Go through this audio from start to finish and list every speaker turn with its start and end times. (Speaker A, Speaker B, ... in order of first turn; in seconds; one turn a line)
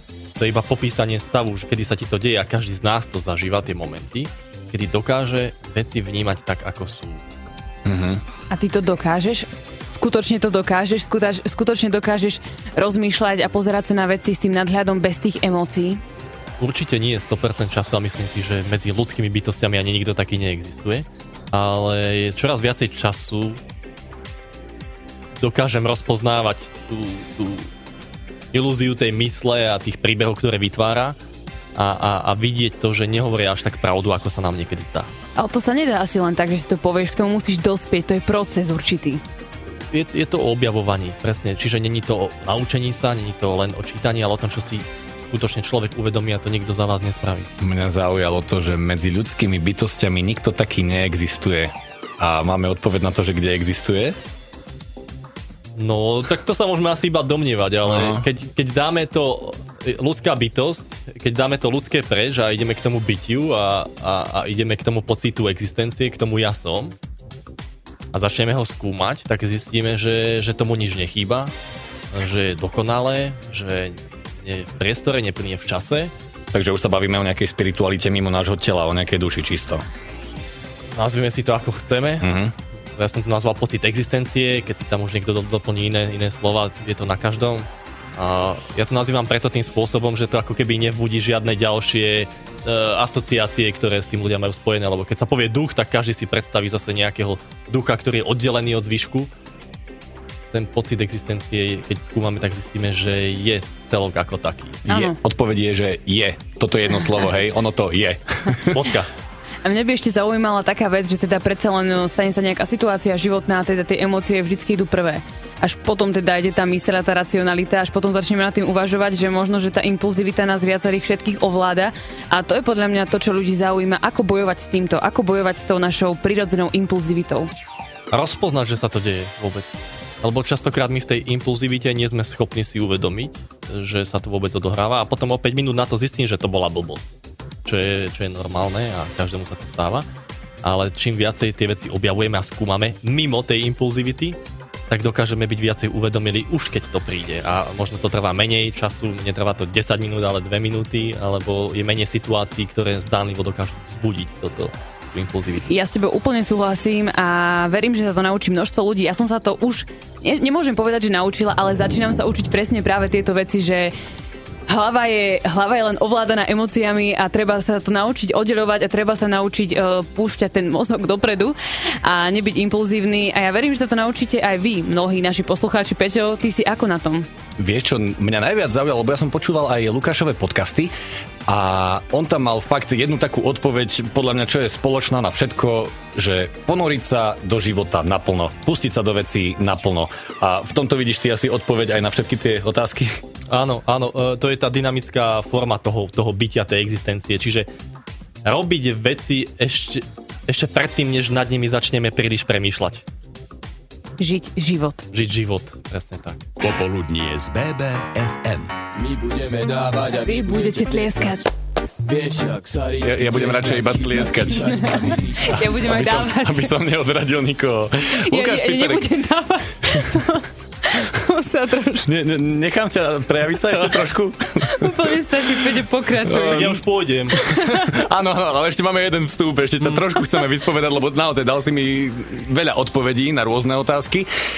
Speaker A: 0.3-7.2
Speaker B: 7.8-8.2
Speaker C: 8.5-16.0
Speaker A: 16.6-23.6
Speaker A: 25.4-27.7
Speaker A: 28.5-31.2
Speaker A: 31.8-35.1
Speaker C: 35.4-39.2
Speaker A: 39.9-47.5
Speaker B: 47.6-54.2
Speaker A: 55.8-66.9
Speaker B: 57.9-58.2
Speaker A: 68.1-71.5
Speaker A: 72.1-76.1
Speaker B: 76.5-79.8
Speaker A: 80.9-82.3
Speaker B: 82.2-82.5
Speaker A: 83.0-99.3
Speaker A: 100.5-104.8
Speaker B: 104.9-108.9
Speaker C: 104.9-105.2
Speaker A: 108.7-109.1
Speaker C: 109.6-127.5
Speaker A: 128.1-137.1
Speaker A: 137.7-140.1
Speaker A: 140.6-144.4
Speaker A: 144.9-155.7
Speaker C: 155.7-163.9
Speaker C: 164.7-177.3
Speaker B: 177.6-180.9
Speaker B: 181.5-193.2
Speaker A: 193.5-197.7
Speaker A: 198.4-203.0
Speaker C: 204.2-205.0
Speaker A: 205.1-206.4
Speaker D: 206.6-208.7
Speaker E: 209.0-211.3
Speaker C: 210.2-211.5
Speaker E: 212.1-215.5
Speaker B: 213.0-219.1
Speaker C: 214.6-216.7
Speaker C: 218.2-222.1
Speaker B: 219.8-220.2
Speaker B: 222.1-225.6
Speaker C: 224.6-226.8
Speaker B: 226.2-234.3
Speaker A: 226.2-227.4
Speaker C: 227.4-228.0